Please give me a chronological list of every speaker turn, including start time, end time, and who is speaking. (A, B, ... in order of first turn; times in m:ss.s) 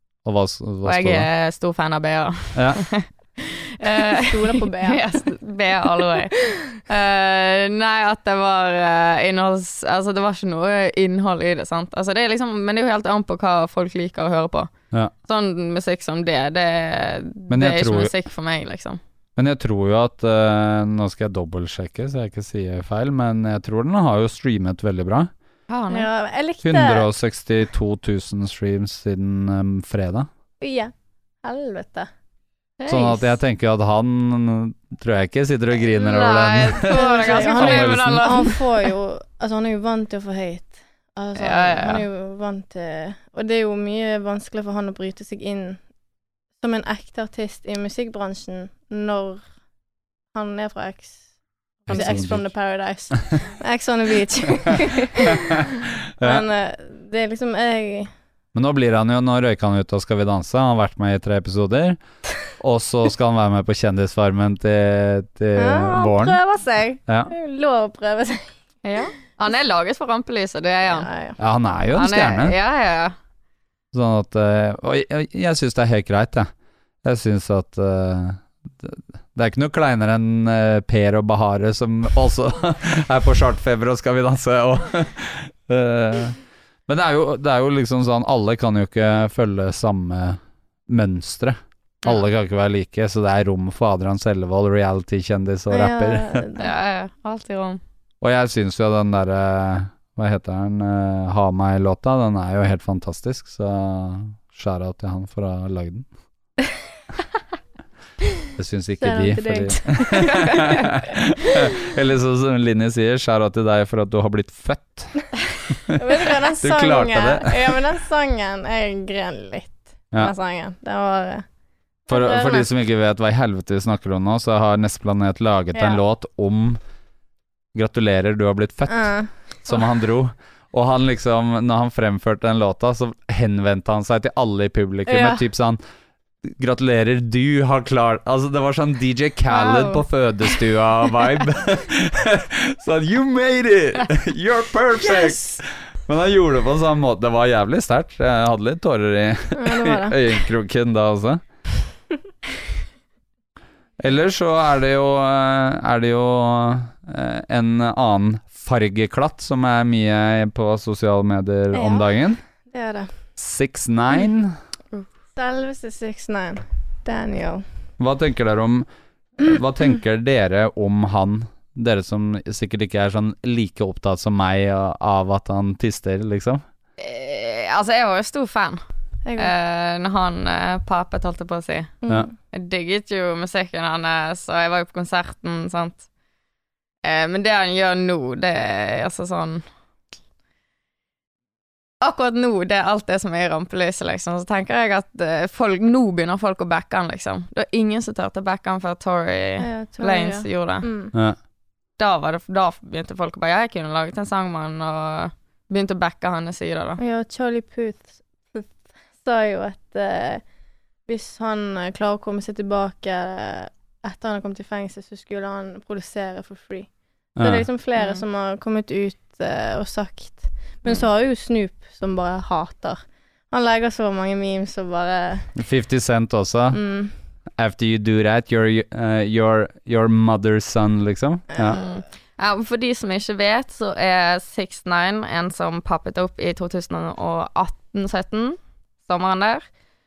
0:00.2-0:01.3 A
0:00.8-0:14.7 B
0:02.5-0:02.8 A
0:03.9-0:05.2 C
0:15.2-0:19.0 B
0:17.5-0:18.1 A
0:19.4-0:25.3 A
0:25.7-0:26.1 B
0:25.9-0:27.0 C
0:26.6-0:30.3 A
0:30.6-0:30.9 C
0:31.4-0:32.1 C
0:32.8-0:33.2 B
0:32.9-0:38.5 A
0:35.9-0:38.8 B
0:36.9-0:45.8 C
0:41.4-0:42.0 B
0:46.6-0:49.4 C
0:50.3-0:51.2 C
0:51.8-0:55.6 C
0:51.9-0:52.5 A
0:56.2-0:56.4 A
0:56.2-0:58.1 C
0:58.5-1:02.0 A
1:02.6-1:06.4 A
1:05.6-1:08.5 C
1:08.8-1:11.1 B
1:10.9-1:11.4 C
1:11.4-1:12.6 A
1:11.9-1:13.1 B
1:13.9-1:16.5 A
1:17.0-1:36.4 A
1:35.7-1:36.7 C
1:36.6-1:37.8 B
1:38.2-1:46.1 A
1:48.6-1:55.1 A
1:49.0-1:50.9 C
1:55.7-1:57.8 A
1:55.9-2:01.4 C
2:02.1-2:02.7 C
2:02.1-2:06.8 A
2:05.7-2:06.0 C
2:07.7-2:09.1 A
2:08.9-2:09.3 C
2:09.6-2:15.8 A
2:15.1-2:15.4 C
2:16.4-2:31.4 A
2:19.6-2:19.9 B
2:29.5-2:30.2 C
2:34.0-2:42.4 A
2:41.7-2:42.1 C
2:42.7-2:43.1 C
2:43.4-2:44.5 A
2:45.4-2:47.6 C
2:48.0-2:48.9 A
2:49.4-2:56.6 A
2:57.0-2:58.8 B
2:59.2-2:59.5 C
2:59.4-3:06.0 B
3:02.0-3:02.3 C
3:07.0-3:09.6 B
3:12.0-3:20.9 B
3:19.6-3:21.1 C
3:22.0-3:27.0 B
3:27.0-3:30.4 C
3:31.1-3:36.9 C
3:37.4-3:37.6 A
3:37.4-3:43.0 C
3:43.5-3:45.5 C
3:45.6-3:46.8 A
3:46.7-3:47.1 C
3:47.6-3:51.8 A
3:51.5-3:51.8 C
3:51.7-3:59.6 B